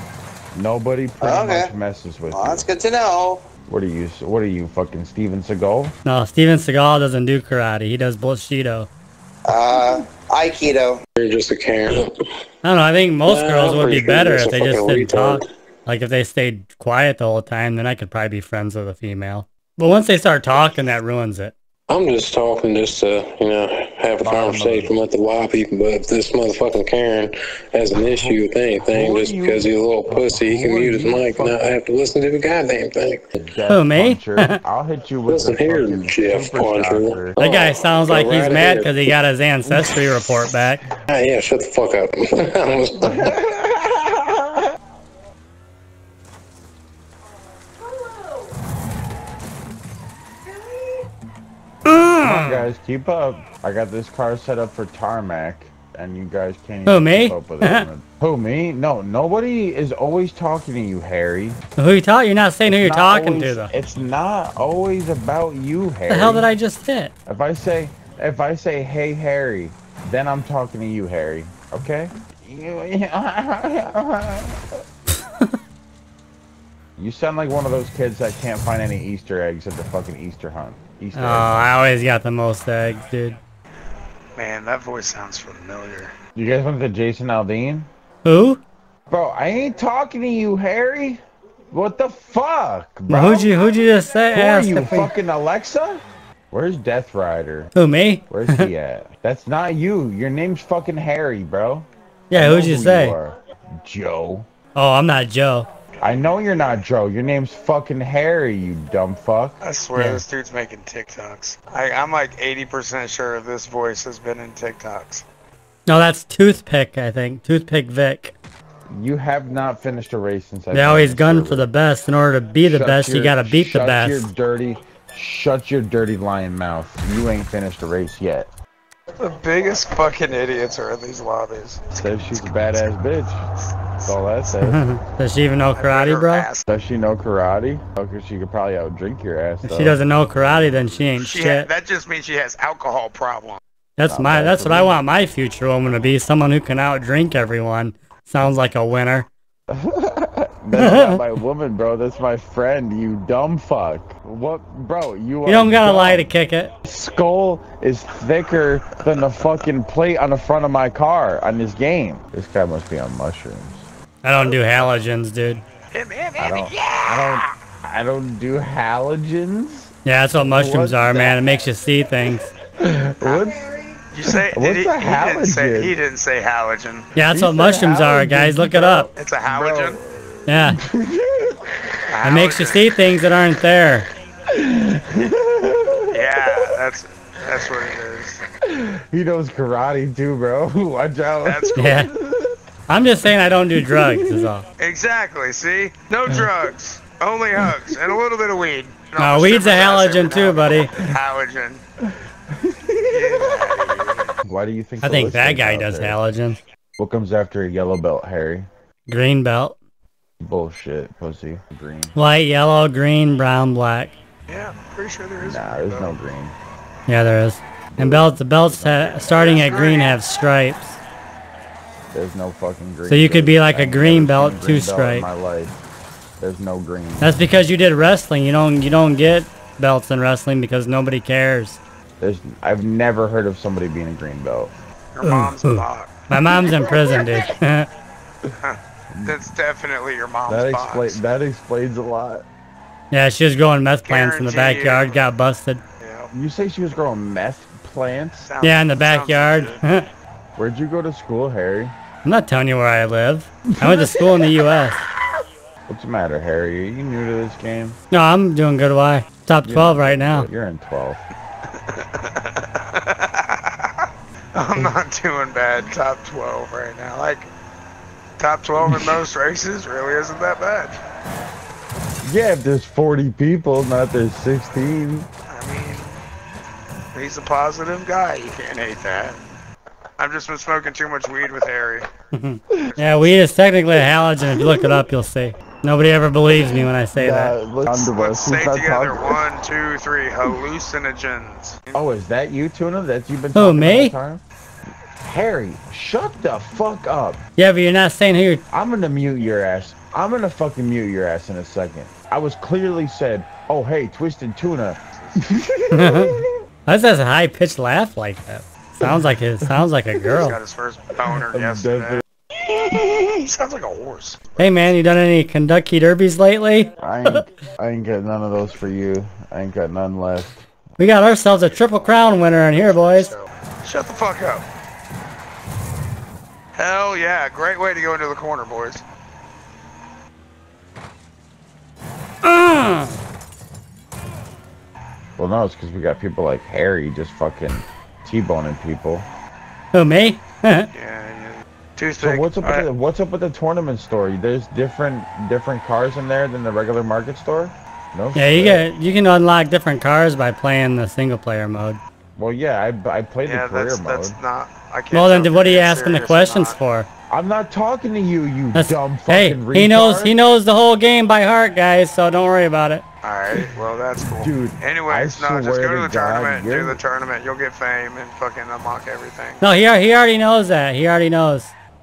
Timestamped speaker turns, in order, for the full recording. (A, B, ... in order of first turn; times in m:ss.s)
0:00.5-0:02.7 A
0:01.2-0:01.7 B
0:02.3-0:03.5 B
0:03.7-0:06.0 A
0:06.0-0:08.9 C
0:09.4-0:11.0 B
0:11.2-0:12.2 D
0:12.6-0:21.6 C
0:13.2-0:15.5 D
0:21.9-0:33.4 D
0:24.2-0:25.0 A
0:28.2-0:31.8 A
0:33.4-0:37.4 A
0:33.7-0:34.6 C
0:35.3-0:39.1 D
0:37.4-0:40.8 C
0:41.1-0:43.3 D
0:43.0-0:44.7 A
0:51.8-0:52.6 C
0:52.2-1:01.6 A
0:56.9-0:57.9 C
1:01.8-1:03.7 C
1:02.7-1:06.5 A
1:06.1-1:07.1 C
1:07.3-1:14.6 A
1:17.0-1:21.5 A
1:21.2-1:23.4 C
1:24.4-1:26.1 E
1:26.4-1:27.9 A
1:28.2-1:28.6 C
1:29.1-1:31.2 A
1:31.7-1:33.5 A
1:33.1-1:35.1 C
1:34.3-1:37.7 A
1:37.8-1:38.7 C
1:38.3-1:44.5 A
1:42.3-1:43.2 C
1:44.8-1:45.7 C
1:46.0-1:49.6 A
1:49.6-1:55.2 E
1:50.0-1:50.2 C
1:55.9-1:58.3 C
1:58.9-2:01.7 A
2:00.7-2:04.3 C
2:02.6-2:08.5 A
2:09.2-2:12.9 E
2:12.0-2:13.5 A
2:13.9-2:14.2 E
2:14.1-2:14.8 A
2:14.6-2:16.5 C
2:15.8-2:16.7 E
2:16.7-2:20.9 A
2:19.6-2:21.7 C
2:21.2-2:23.6 E
2:24.0-2:29.3 C
2:24.1-2:25.0 A
2:29.7-2:36.3 A
2:30.8-2:31.2 C
2:35.5-2:36.7 C
2:36.8-2:43.9 A
2:44.2-2:45.6 C
2:45.9-2:47.5 E
2:46.4-2:51.4 A
2:50.0-2:52.5 C
2:52.7-2:53.8 A
2:54.1-2:57.1 E
2:54.3-2:56.0 A
2:57.2-2:59.1 C
2:57.3-3:00.0 A
2:59.2-3:00.0 E
3:00.5-3:00.8 C
3:00.5-3:02.0 A
3:02.1-3:02.9 E
3:02.2-3:04.1 C
3:04.5-3:06.7 A
3:06.1-3:08.4 E
3:08.6-3:12.6 A
3:11.4-3:11.9 E
3:11.8-3:12.1 C
3:12.9-3:14.6 C
3:13.9-3:14.5 A
3:14.8-3:21.8 E
3:17.6-3:18.1 A
3:19.2-3:21.0 C
3:22.6-3:23.5 A
3:23.1-3:24.3 E
3:24.4-3:26.2 A
3:25.0-3:26.6 C
3:27.0-3:28.7 A
3:29.1-3:29.8 C
3:30.4-3:32.2 A
3:32.2-3:34.2 C
3:34.5-3:36.2 E
3:35.4-3:36.6 A
3:37.1-3:41.0 C
3:37.9-3:39.2 A
3:39.1-3:40.2 E
3:42.1-3:45.8 A
3:43.1-3:45.3 C
3:46.4-3:47.4 A
3:47.2-3:51.8 C
3:52.2-3:54.8 A
3:55.1-3:56.1 E
3:55.2-3:57.9 C
3:56.6-3:57.2 A
3:58.6-4:01.2 E
3:59.1-3:59.4 A
4:00.5-4:02.5 A
4:03.1-4:05.8 C
4:04.0-4:05.2 E
4:06.0-4:06.3 E
4:06.3-4:08.6 A
4:08.5-4:09.8 E
4:08.6-4:10.1 C
4:10.6-4:12.0 A
4:12.2-4:15.0 C
4:13.7-4:14.8 A
4:15.9-4:18.0 A
4:18.1-4:20.5 C
4:19.6-4:21.2 A
4:21.7-4:27.5 E
4:28.4-4:31.0 E
4:28.8-4:29.2 A
4:32.2-4:35.3 A
4:35.5-4:36.2 E
4:37.1-4:39.4 E
4:40.2-4:42.1 E
4:42.3-4:47.6 C
4:43.0-4:43.4 E
4:44.4-4:45.0 A
4:46.5-4:49.5 A
4:47.9-4:52.0 E
4:51.9-4:54.4 A
4:53.5-4:54.2 C
4:55.2-4:57.4 A
4:57.6-4:58.6 C
4:58.7-5:06.5 A
5:05.1-5:05.6 E
5:05.9-5:10.6 C
5:09.0-5:10.5 A
5:10.3-5:12.2 E
5:11.3-5:13.3 A
5:13.3-5:15.0 E
5:14.6-5:17.4 C
5:17.0-5:20.6 A
5:21.0-5:23.3 C
5:22.7-5:24.6 E
5:26.8-5:29.0 E
5:32.4-5:33.1 C
5:35.4-5:39.3 A
5:39.9-5:40.9 C
5:40.9-5:42.9 E
5:42.2-5:48.9 A
5:48.4-5:52.0 C
5:52.4-5:54.4 A
5:53.4-5:56.8 E
5:55.1-5:57.1 C
5:57.3-6:00.4 A
5:58.7-6:03.0 C
6:03.2-6:09.6 E
6:04.4-6:07.0 A
6:09.6-6:11.7 C